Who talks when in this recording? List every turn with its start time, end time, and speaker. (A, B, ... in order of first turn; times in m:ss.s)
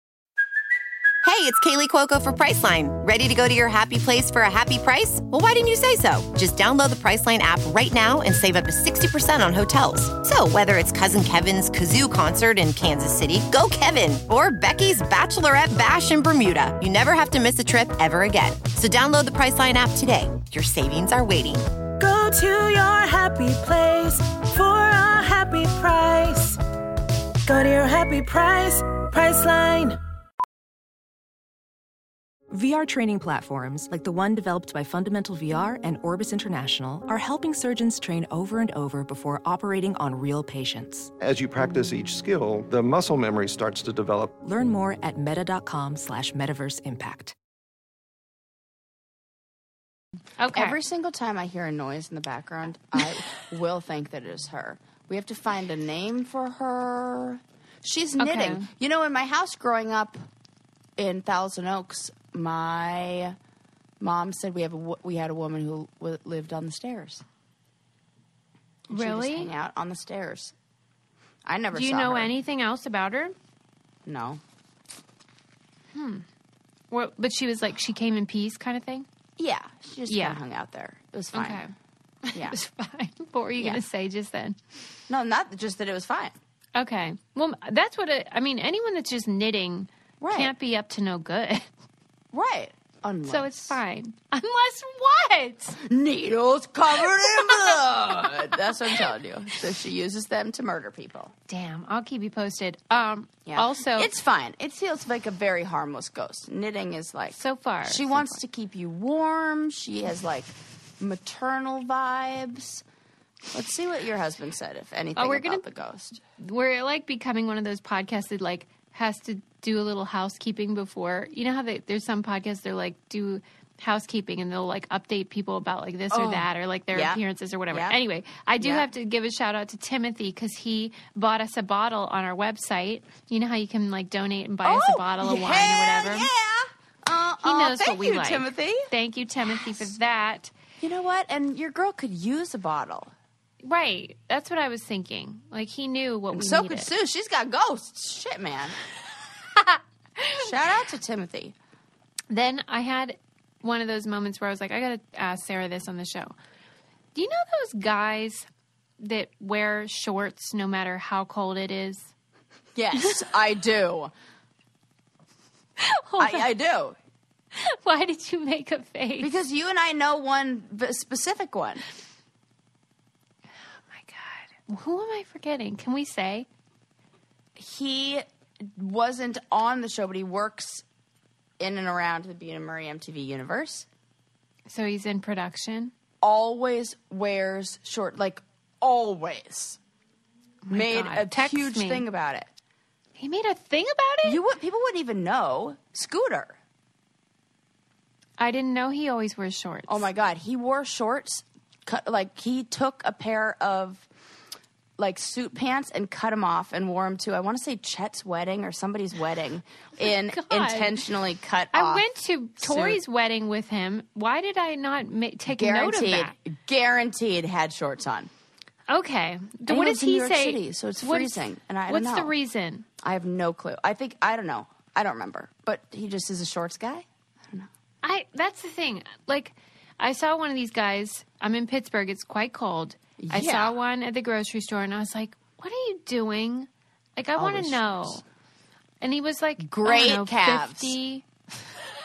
0:01.2-0:21.6 A
0:22.0-0:26.6 B
0:27.4-0:30.0 B
0:32.5-0:41.1 C
0:41.2-0:44.3 D
0:44.4-0:47.3 C
0:50.4-0:50.8 E
0:50.5-1:00.2 F
0:58.2-0:58.7 E
1:01.0-1:03.4 F
1:04.0-1:07.2 F
1:08.9-1:10.5 F
1:08.9-1:09.5 E
1:11.4-1:12.3 F
1:11.7-1:13.3 E
1:14.0-1:14.4 F
1:15.9-1:16.2 E
1:16.9-1:19.1 E
1:19.4-1:21.6 F
1:20.1-1:20.4 E
1:21.3-1:21.7 E
1:22.2-1:24.6 E
1:25.1-1:26.4 F
1:26.7-1:31.7 E
1:30.2-1:30.5 F
1:32.3-1:33.8 F
1:33.2-1:35.8 E
1:35.8-1:41.3 F
1:37.0-1:39.0 E
1:41.5-1:44.1 E
1:43.4-1:52.8 F
1:47.3-1:48.4 E
1:53.5-1:56.2 F
1:55.2-1:55.6 E
1:56.4-2:16.3 E
2:06.1-2:08.0 F
2:08.6-2:08.9 F
2:14.6-2:18.9 F
2:17.4-2:20.5 E
2:20.8-2:23.1 F
2:23.6-2:26.9 E
2:26.3-2:28.8 F
2:29.6-2:30.5 E
2:30.4-2:31.5 F
2:32.3-2:36.3 E
2:37.1-2:38.5 E
2:39.0-2:42.1 E
2:42.7-2:44.1 F
2:45.8-2:46.5 E
2:46.2-2:47.0 F
2:47.5-2:49.3 E
2:49.2-2:51.8 F
2:53.9-2:56.5 E
2:57.6-3:00.8 F
3:01.6-3:03.9 F
3:04.7-3:05.9 E
3:06.2-3:09.8 F
3:10.6-3:12.0 E
3:10.7-3:12.5 F
3:13.2-3:14.4 E
3:14.2-3:16.6 F
3:18.4-3:20.1 E
3:19.9-3:24.1 F
3:25.0-3:33.0 F
3:30.0-3:31.0 E
3:31.7-3:36.3 E
3:35.5-3:38.3 F
3:38.9-3:42.8 E
3:39.7-3:42.3 F
3:43.0-3:47.7 F
3:48.0-3:58.2 E
3:53.2-3:53.7 F
3:57.4-3:58.2 F
3:59.0-4:01.2 E
3:59.6-4:01.0 F